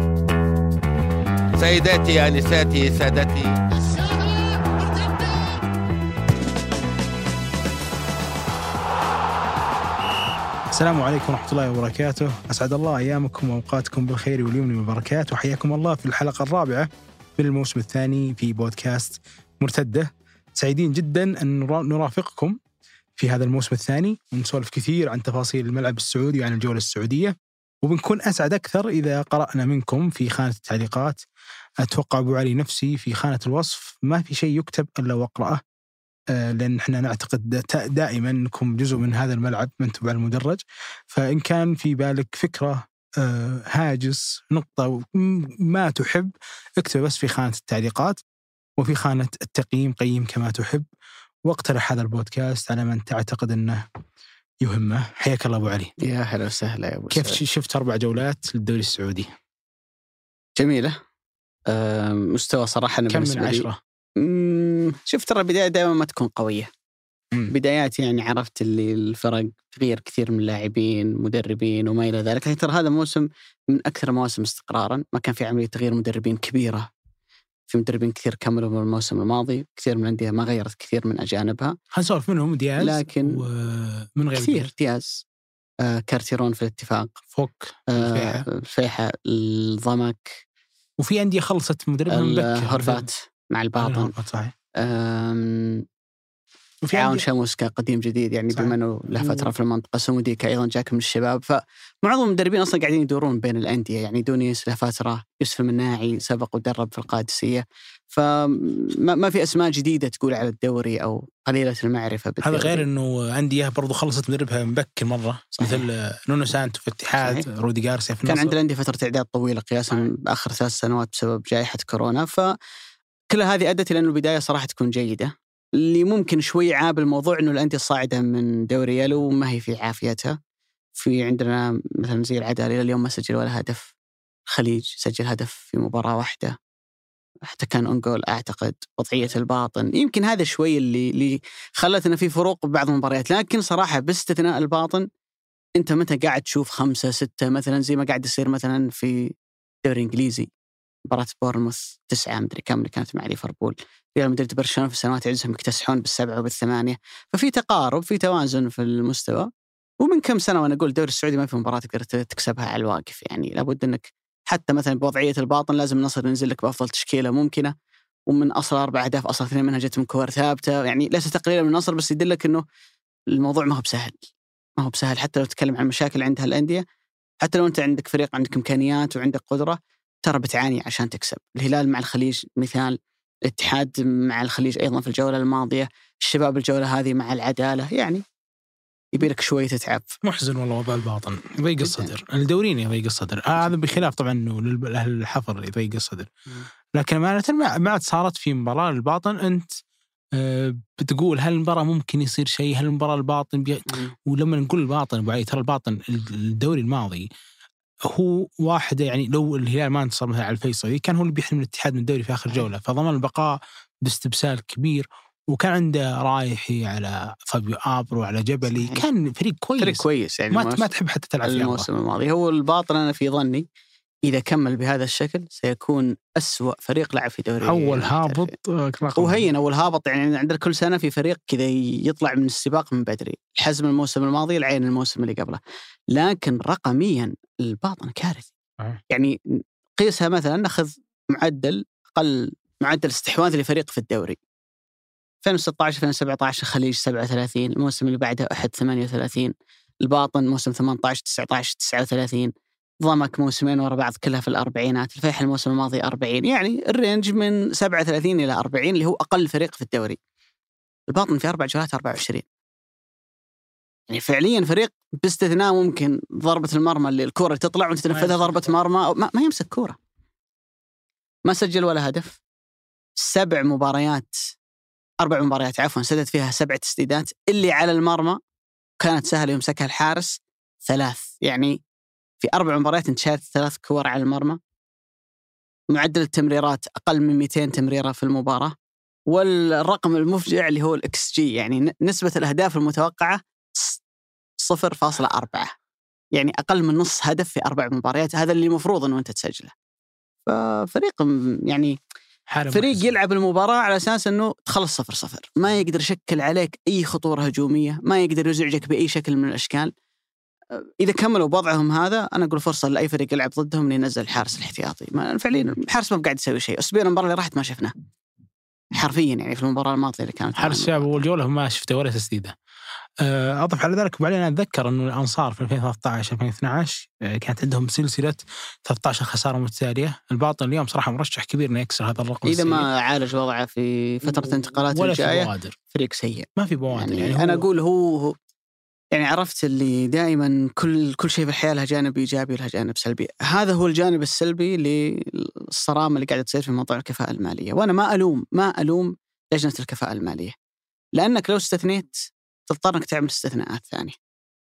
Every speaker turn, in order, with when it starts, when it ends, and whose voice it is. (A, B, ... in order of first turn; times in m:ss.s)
0:01.6-0:03.6 A
0:10.7-0:22.6 B
0:23.2-0:31.2 B
0:31.8-0:35.6 B
0:36.3-0:48.2 B
0:48.8-0:50.8 B
0:51.4-0:53.8 B
0:54.6-0:55.9 B
0:56.0-0:57.4 C
0:57.1-0:59.3 B
1:00.6-1:01.0 C
1:01.7-1:03.7 C
1:03.1-1:03.8 B
1:04.2-1:06.7 C
1:07.5-1:16.9 C
1:17.7-1:21.7 C
1:21.9-1:24.7 B
1:22.8-1:23.4 C
1:24.4-1:25.2 C
1:25.8-1:27.1 C
1:27.4-1:28.4 B
1:27.9-1:30.4 C
1:31.0-1:33.0 B
1:32.1-1:34.1 C
1:33.8-1:34.5 B
1:34.8-1:35.8 C
1:36.8-1:37.2 B
1:36.9-1:52.8 C
1:38.5-1:39.5 B
1:52.4-1:58.6 B
1:55.6-1:55.8 C
1:57.2-1:57.4 C
1:58.2-2:02.5 C
2:03.3-2:10.4 C
2:10.9-2:13.9 C
2:14.5-2:16.5 C
2:17.5-2:25.0 C
2:25.8-2:29.3 C
2:29.8-2:30.5 C
2:31.1-2:39.5 C
2:40.0-2:47.7 C
2:48.3-2:52.6 C
2:53.3-2:54.2 C
2:54.8-2:56.8 C
2:57.4-3:08.2 C
3:09.1-3:10.1 C
3:10.2-3:16.3 B
3:11.8-3:12.1 C
3:16.9-3:19.8 B
3:20.3-3:27.3 B
3:23.9-3:24.1 C
3:28.0-3:41.8 B
3:38.7-3:39.0 C
3:39.8-3:40.9 C
3:41.4-3:43.6 C
3:44.2-3:48.5 C
3:47.6-3:49.4 B
3:49.2-3:55.6 C
3:56.1-3:58.5 C
3:59.1-3:59.4 C
4:00.0-4:04.4 C
4:05.4-4:09.5 C
4:10.0-4:12.5 C
4:13.0-4:20.2 C
4:21.1-4:22.4 C
4:24.1-4:30.0 C
4:28.1-4:28.7 B
4:31.5-4:32.4 C
4:33.2-4:34.4 C
4:35.2-4:38.4 C
4:39.0-4:41.8 C
4:42.4-4:44.6 C
4:45.9-4:48.7 C
4:49.3-4:54.0 C
4:54.6-4:55.7 C
4:56.3-4:59.7 C
5:00.4-5:02.0 C
5:02.5-5:03.1 B
5:02.7-5:09.9 C
5:11.0-5:17.9 C
5:18.9-5:21.2 C
5:20.6-5:22.5 B
5:23.2-5:32.9 B
5:32.4-5:38.3 C
5:34.3-5:35.8 B
5:36.6-5:37.6 B
5:39.1-5:50.5 C
5:51.2-5:54.2 C